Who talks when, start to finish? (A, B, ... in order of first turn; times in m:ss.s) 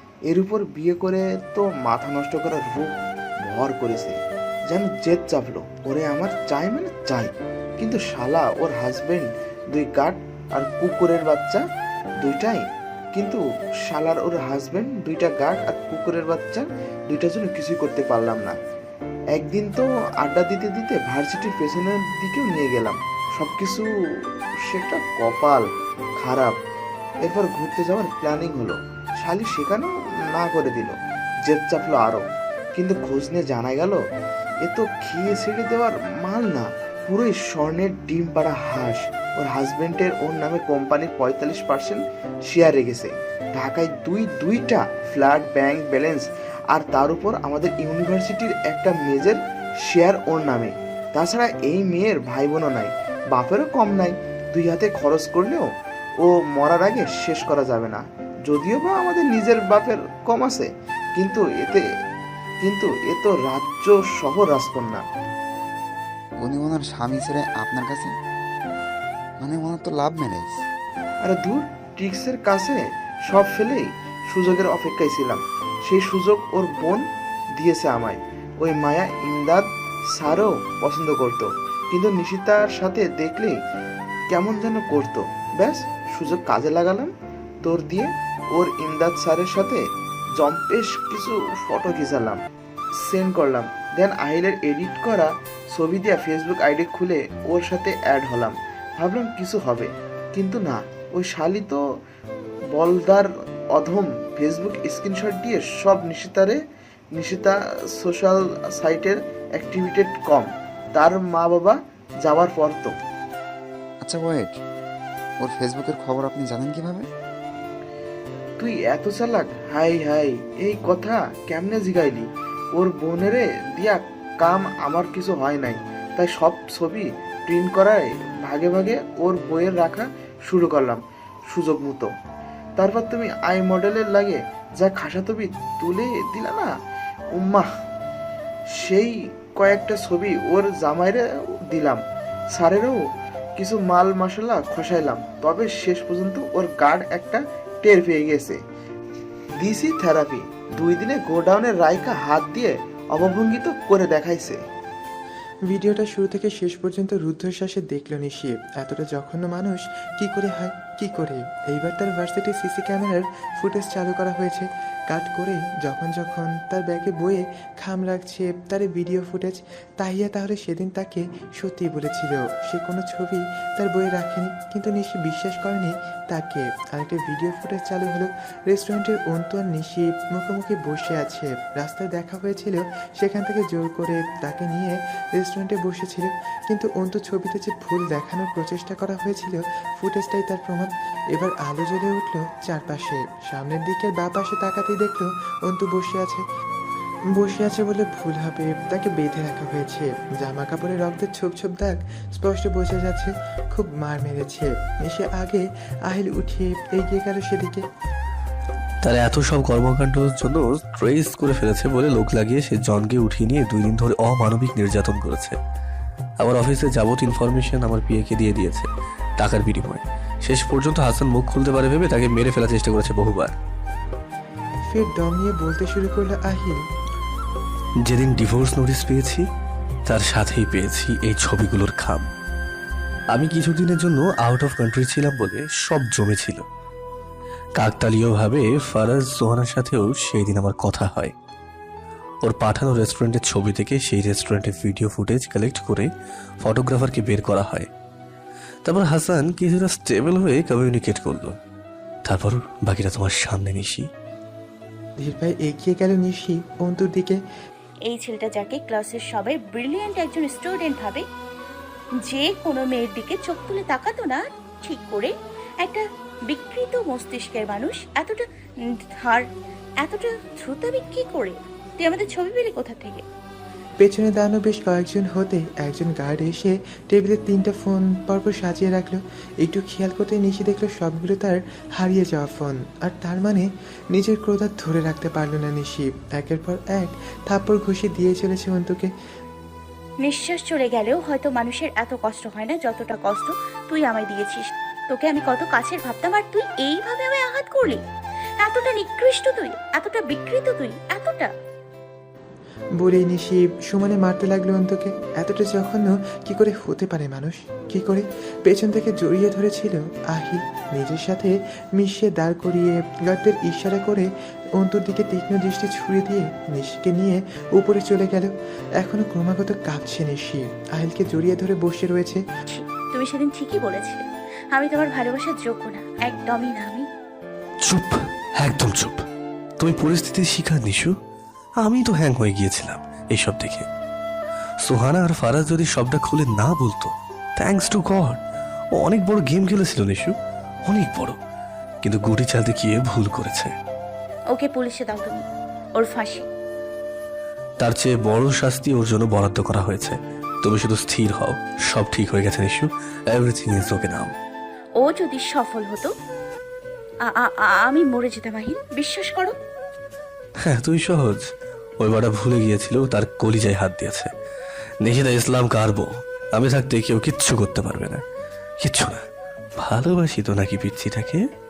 0:00.3-0:11.7 A
0:12.2-0:18.6 A
0:19.3-0:26.6 A
0:27.2-0:34.0 A
0:34.6-1:01.9 A
1:02.6-1:05.0 A
1:06.4-1:08.1 B
1:09.4-1:10.6 B
1:11.2-1:23.6 A
1:24.3-1:27.1 A
1:27.6-1:29.8 A
1:30.4-1:32.4 A
1:33.0-1:41.8 A
1:42.7-1:46.6 A
1:47.1-1:53.0 A
1:54.0-1:54.6 B
1:55.4-1:57.1 B
1:58.6-2:12.1 A
2:12.8-2:16.7 A
2:17.3-2:17.7 A
2:18.7-2:22.0 A
2:22.5-2:28.6 A
2:29.6-2:34.6 A
2:35.7-3:16.4 C
3:17.3-3:27.9 C
3:29.0-3:35.6 D
3:36.4-3:43.5 D
3:44.9-3:46.8 C
3:48.0-3:49.5 D
3:50.1-3:52.3 D
3:53.3-3:56.6 D
3:57.8-4:01.3 D
4:02.4-4:06.1 D
4:06.6-4:07.9 D
4:08.8-4:11.6 D
4:12.2-4:14.1 D
4:15.2-4:17.4 C
4:18.1-4:21.3 E
4:22.2-4:29.5 E
4:30.0-4:33.2 E
4:34.0-4:49.1 C
4:50.2-4:58.0 E
4:58.6-5:01.5 E
5:03.0-5:22.4 C
5:22.7-5:27.1 E
5:27.8-5:29.2 D
5:29.8-5:31.2 D
5:31.8-5:33.9 D
5:34.8-5:38.4 D
5:39.0-5:40.4 D
5:40.9-5:41.4 D
5:42.0-5:43.8 D
5:44.5-5:45.4 E
5:46.0-5:46.5 E
5:47.8-5:54.4 D
5:55.0-5:56.1 E
5:57.2-5:59.6 E
6:00.6-6:04.3 D
6:05.0-6:08.2 D
6:08.8-6:09.2 D
6:09.8-6:11.4 D